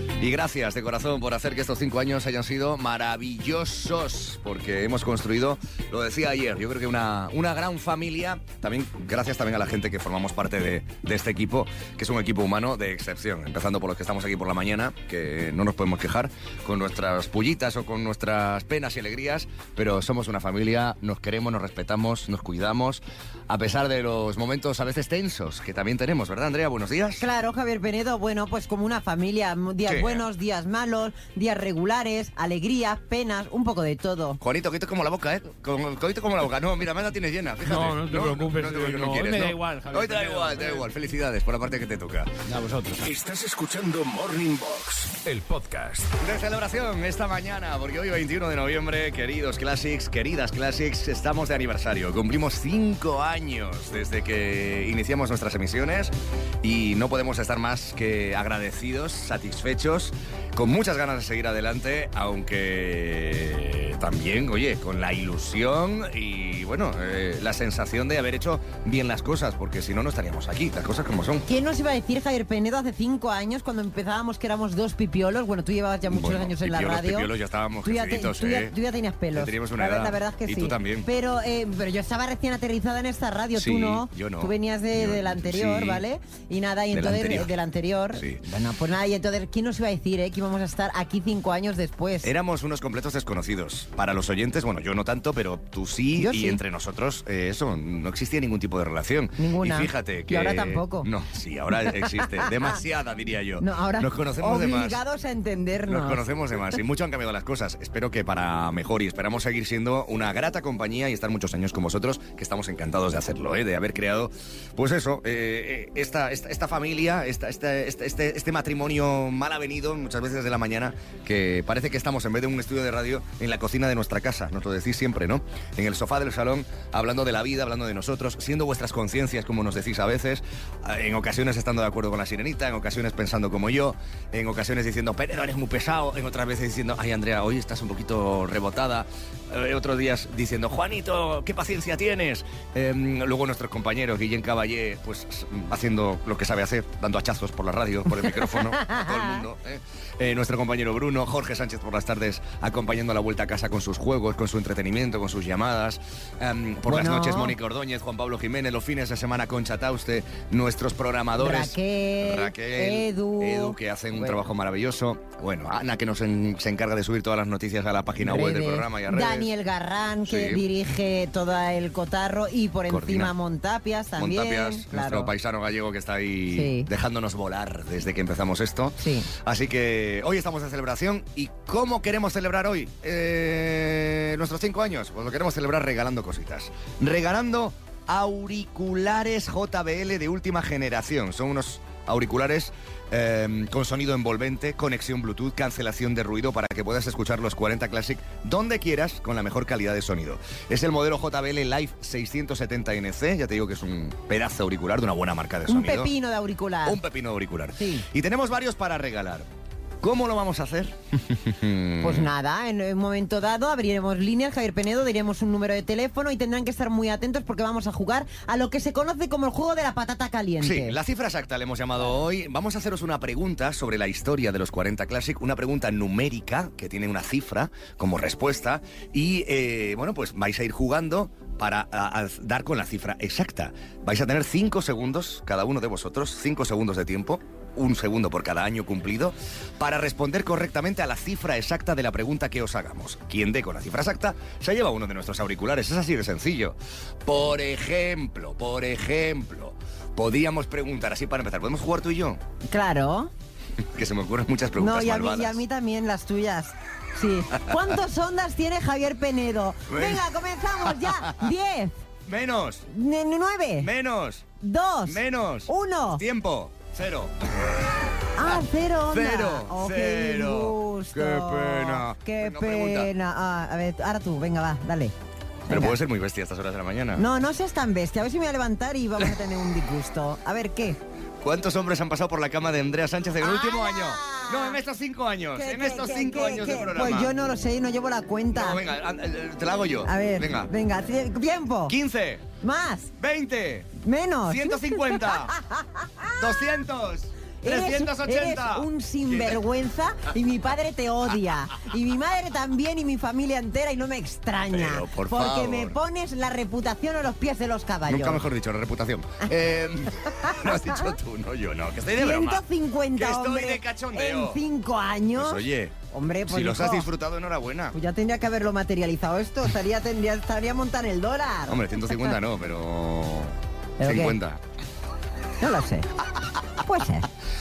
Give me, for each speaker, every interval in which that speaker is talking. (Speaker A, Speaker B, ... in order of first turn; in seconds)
Speaker A: 0.2-27.2, 29.9-30.3, 34.4-42.3, 46.2-71.5, 76.1-78.8, 79.3-81.1, 83.5-86.0, 86.9-87.5, 88.1-88.4, 92.2-105.0, 105.9-169.5, 170.3-170.7, 172.9-173.3, 174.2-206.1, 206.8-209.5, 210.0-212.3, 220.6-252.4, 253.9-255.6, 259.9-261.5, 262.3-262.9, 263.8-264.5, 265.1-268.6, 269.1-273.1, 275.7-277.3, 281.4-287.3, 288.5-290.7, 291.9-292.5, 293.2-293.9, 294.5-295.6, 296.4-299.6, 304.7-306.0, 308.1-314.6, 315.3-318.0, 321.7-324.6
Speaker B: 27.2-34.4, 71.5-77.3, 77.8-92.3, 96.2-96.6, 99.4-101.1, 102.0-102.4, 103.6-106.2, 148.3-149.4, 156.9-157.6, 161.4-164.4, 168.2-175.3, 176.5-176.9, 179.0-179.3, 205.7-207.0, 207.8-208.1, 212.0-221.0, 252.7-253.3, 254.8-262.0, 262.9-263.9, 264.6-266.2, 268.4-275.1, 275.7-276.0, 277.2-281.0, 283.4-284.8, 285.6-288.8, 290.1-292.0, 292.6-293.1, 294.0-296.5, 297.6-308.4, 310.2-311.2, 312.2-317.1, 317.9-322.3, 324.0-324.4, 325.6-326.1, 326.8-327.3
Speaker C: 37.7-40.8, 42.5-43.0
Speaker D: 43.0-46.1